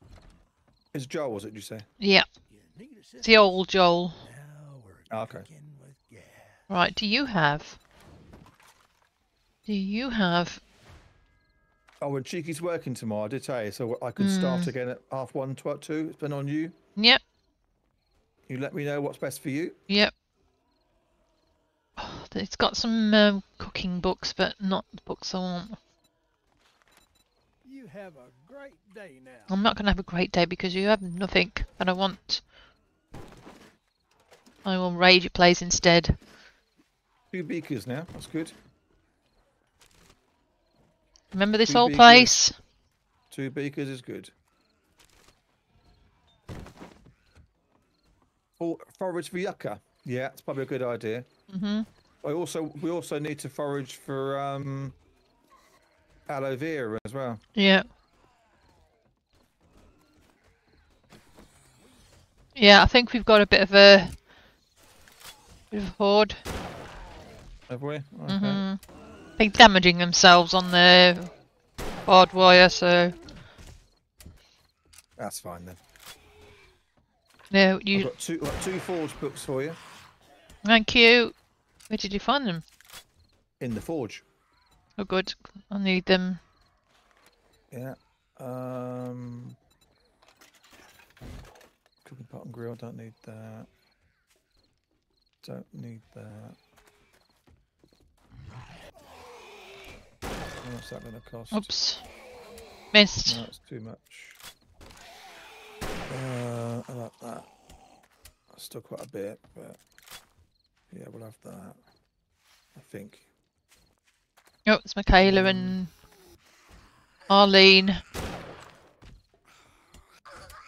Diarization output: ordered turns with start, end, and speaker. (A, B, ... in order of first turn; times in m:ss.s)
0:00.9-0:01.9 A
0:02.0-0:02.3 B
0:02.5-0:03.5 C
0:03.2-0:04.2 B
0:04.2-0:06.7 C
0:05.1-0:05.5 A
0:06.7-0:07.8 B
0:09.7-0:10.6 B
0:12.0-0:16.8 A
0:14.2-0:14.7 B
0:18.5-0:19.8 A
0:22.0-0:25.8 B
0:27.6-0:29.6 C
0:29.5-0:32.4 B
0:34.6-0:36.2 B
0:37.3-0:38.6 A
0:41.3-0:42.6 B
0:41.7-0:42.4 A
0:43.3-0:44.3 A
0:48.6-0:51.3 A
0:51.5-0:51.9 B
0:52.2-0:55.0 A
0:56.3-0:57.4 A
0:57.6-0:57.8 B
1:02.6-1:04.2 B
1:05.7-1:06.4 B
1:07.7-1:08.6 A
1:08.3-1:08.8 B
1:09.4-1:11.3 B
1:12.1-1:13.2 B
1:15.2-1:15.8 A
1:17.5-1:18.1 B
1:17.9-1:19.8 A
1:20.6-1:21.3 B
1:21.9-1:22.6 B
1:23.6-1:24.2 A
1:25.0-1:26.4 B
1:27.7-1:29.6 A
1:32.0-1:33.7 A
1:35.4-1:36.6 A
1:40.6-1:41.7 A
1:41.5-1:42.0 B
1:42.9-1:43.4 B
1:43.3-1:44.4 A
1:46.1-1:47.5 A
1:48.5-1:49.8 A
1:50.9-1:51.8 A
1:52.8-1:53.3 A
1:54.7-1:55.9 B
1:55.2-1:55.8 A
1:57.3-1:58.0 B